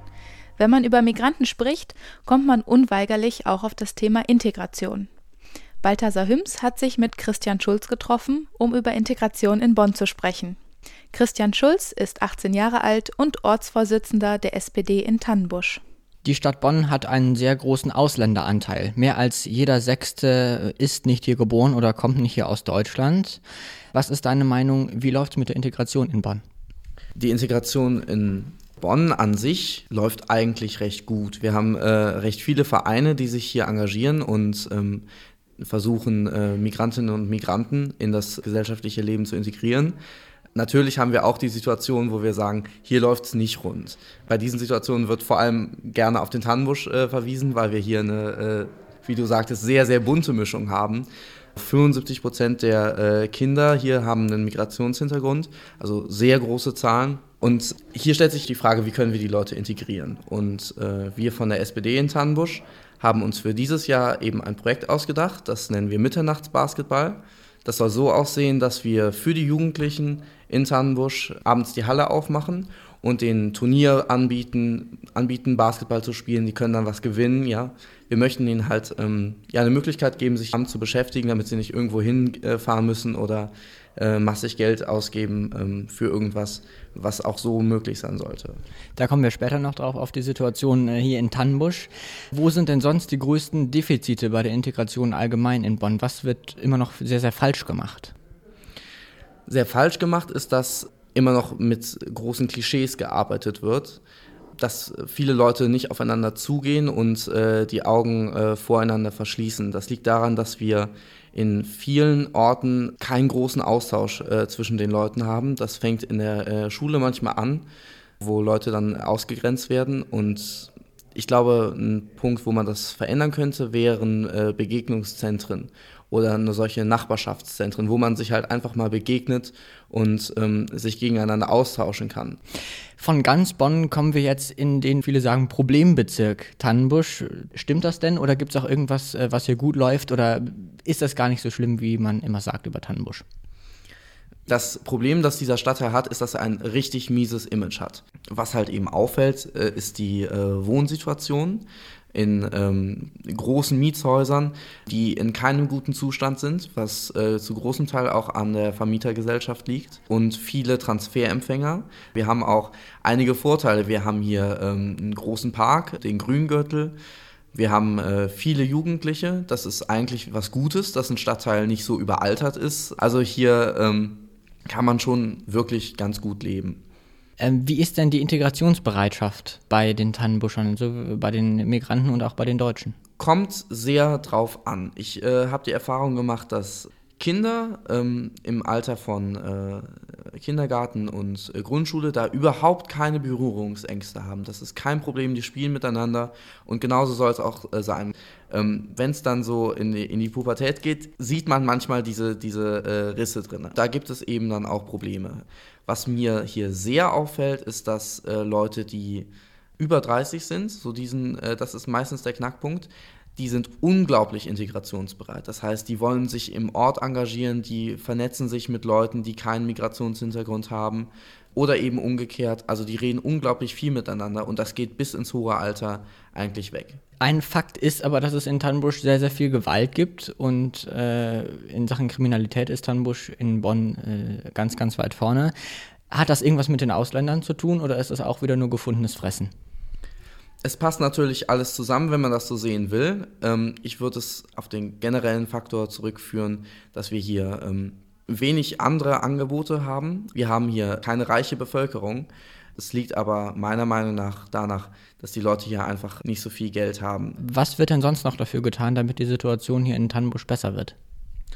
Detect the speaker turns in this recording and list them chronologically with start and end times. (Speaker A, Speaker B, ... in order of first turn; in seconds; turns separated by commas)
Speaker A: 0.6-5.1, Speaker A: 5.8-10.6, Speaker A: 11.1-15.8, Speaker B: 16.2-23.4, Speaker B: 23.9-26.4, Speaker C: 27.1-35.0, Speaker C: 35.6-40.0, Speaker C: 40.5-88.6, Speaker B: 89.0-98.1, Speaker C: 99.5-104.0, Speaker C: 104.6-117.7, Speaker C: 118.2-132.4, Speaker B: 133.0-143.2, Speaker C: 144.5-166.9, Speaker C: 167.5-176.8, Speaker B: 177.4-182.9, Speaker C: 183.2-227.0, Speaker B: 227.2-235.5, Speaker B: 236.1-239.5, Speaker C: 240.6-257.4, Speaker B: 257.4-260.9